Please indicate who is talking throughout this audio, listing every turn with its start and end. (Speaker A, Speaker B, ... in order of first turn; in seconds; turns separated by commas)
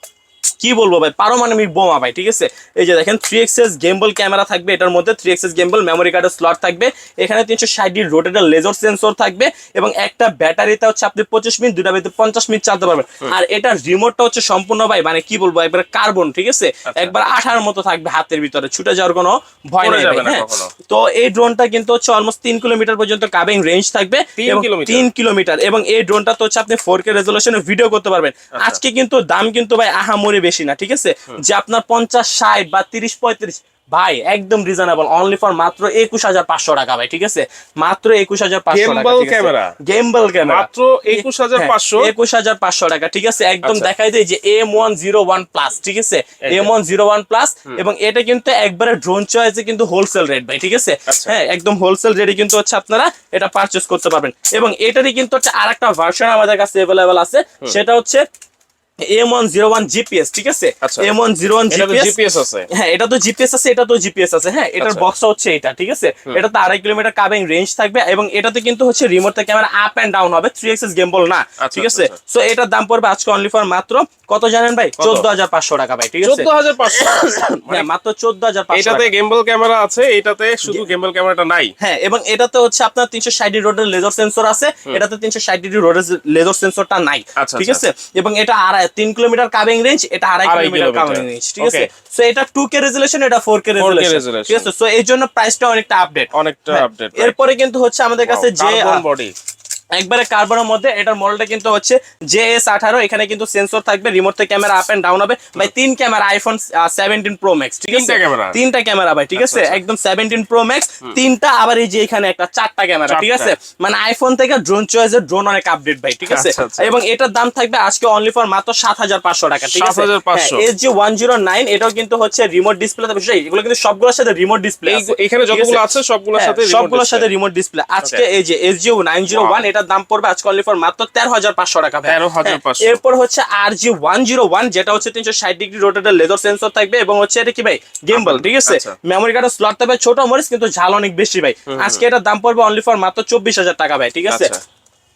Speaker A: 0.6-58.2, Speaker B: 16.9-17.1, Speaker B: 19.8-20.7, Speaker B: 24.4-25.1, Speaker B: 38.7-39.8, Speaker B: 40.4-42.1, Speaker B: 43.6-43.9, Speaker B: 46.5-46.7, Speaker B: 51.1-51.4, Speaker A: 59.1-62.1, Speaker B: 60.8-61.1, Speaker B: 61.7-62.7, Speaker A: 62.7-79.1, Speaker B: 64.8-65.1, Speaker B: 71.6-72.1, Speaker B: 75.0-75.3, Speaker B: 76.2-77.9, Speaker B: 78.7-81.7, Speaker A: 81.8-99.0, Speaker B: 87.4-87.8, Speaker B: 90.5-91.9, Speaker B: 93.8-94.7, Speaker B: 96.3-97.4, Speaker B: 98.2-99.3, Speaker A: 100.0-125.8, Speaker B: 107.9-108.6, Speaker B: 109.4-109.8, Speaker B: 113.1-113.6, Speaker B: 116.3-117.0, Speaker B: 119.6-120.7, Speaker B: 124.9-127.3, Speaker A: 126.4-144.5, Speaker B: 129.3-129.7, Speaker B: 132.1-133.0, Speaker B: 138.1-139.0, Speaker B: 141.7-142.0, Speaker B: 144.3-144.6